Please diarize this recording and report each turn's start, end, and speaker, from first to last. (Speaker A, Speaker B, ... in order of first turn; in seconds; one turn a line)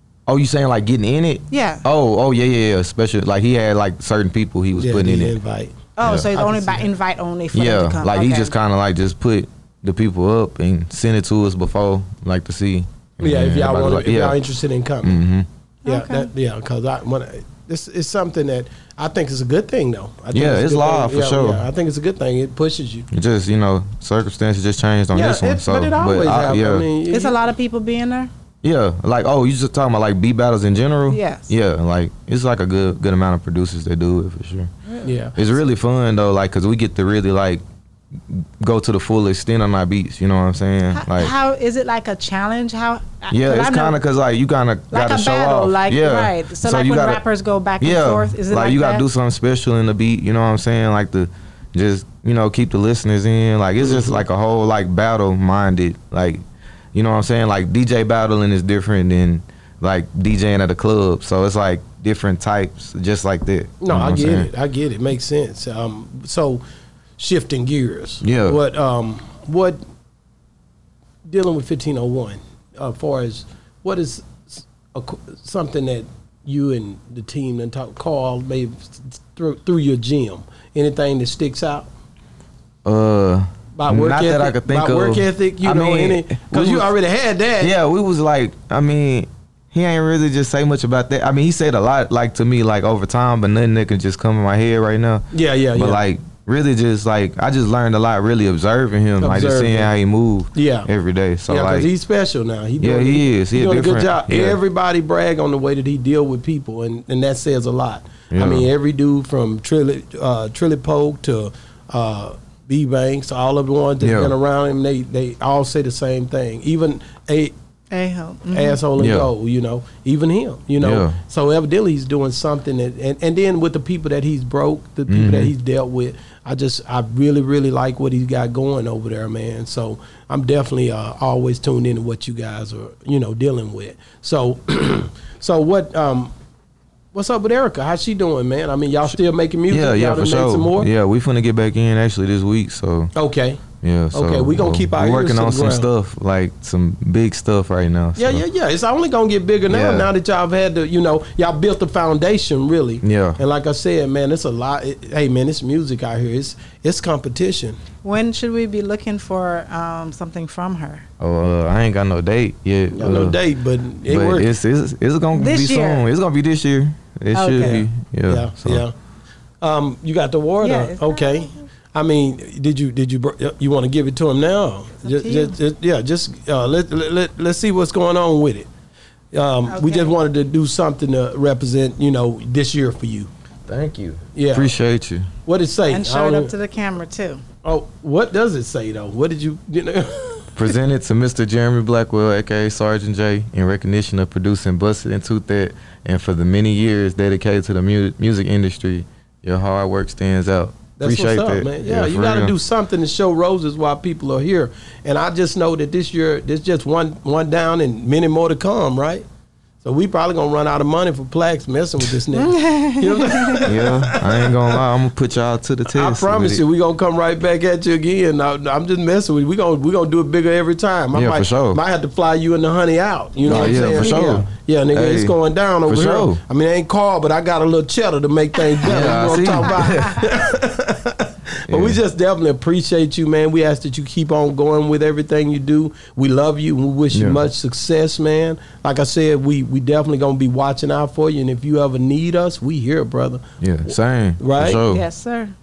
Speaker A: 0.3-5.3
Speaker B: 1.5-1.8
Speaker C: 4.8-6.9
Speaker B: 6.0-8.5
Speaker A: 6.0-6.3
Speaker A: 7.5-14.4
Speaker C: 13.2-15.2
Speaker A: 15.0-15.5
Speaker B: 15.8-16.3
Speaker C: 15.8-23.1
Speaker A: 20.3-21.7
Speaker A: 23.1-26.9
Speaker C: 25.1-27.5
Speaker B: 27.1-28.3
Speaker A: 28.6-34.7
Speaker B: 31.1-31.5
Speaker C: 35.0-35.4
Speaker A: 35.4-37.6
Speaker A: 38.3-41.3
Speaker B: 40.9-44.0
Speaker A: 43.3-47.2
Speaker B: 44.9-49.0
Speaker A: 47.8-56.4
Speaker C: 53.8-54.2
Speaker A: 56.9-64.5
Speaker C: 63.8-66.6
Speaker C: 67.2-69.8
Speaker A: 68.2-68.6
Speaker C: 71.3-81.9
Speaker A: 82.8-86.9
Speaker C: 83.8-87.7
Speaker A: 87.6-101.9
Speaker C: 95.3-96.0
Speaker C: 99.2-99.9
Speaker C: 100.5-100.9
Speaker C: 101.5-117.5
Speaker A: 102.8-104.6
Speaker A: 108.3-108.7
Speaker A: 114.0-114.3
Speaker B: 117.9-118.8
Speaker C: 118.5-136.3
Speaker A: 119.0-119.3
Speaker A: 120.8-121.2
Speaker A: 125.1-125.5
Speaker C: 137.1-140.9
Speaker A: 139.7-143.1
Speaker C: 143.1-145.9
Speaker A: 143.8-148.4
Speaker C: 148.2-157.8
Speaker A: 149.7-150.1
Speaker A: 153.0-153.4
Speaker B: 158.0-161.1
Speaker A: 161.2-163.4
Speaker C: 162.9-164.5
Speaker A: 164.0-168.8
Speaker B: 165.3-166.1
Speaker B: 167.3-167.9
Speaker C: 168.3-168.9
Speaker C: 169.6-178.7
Speaker B: 170.6-171.7
Speaker B: 175.0-175.6
Speaker C: 179.3-183.3
Speaker B: 179.7-180.1
Speaker A: 183.7-185.3
Speaker C: 184.3-184.7
Speaker C: 185.4-186.5
Speaker B: 185.9-187.4
Speaker C: 187.6-190.5
Speaker A: 190.6-202.5
Speaker C: 201.0-209.2
Speaker C: 209.8-214.5
Speaker B: 212.3-213.6
Speaker A: 213.6-216.6
Speaker C: 215.9-243.4
Speaker A: 221.1-221.8
Speaker A: 223.4-226.4
Speaker B: 223.5-224.2
Speaker A: 228.8-230.2
Speaker A: 231.7-232.0
Speaker A: 237.1-237.4
Speaker A: 243.6-245.0
Speaker C: 244.4-244.8
Speaker B: 244.9-245.5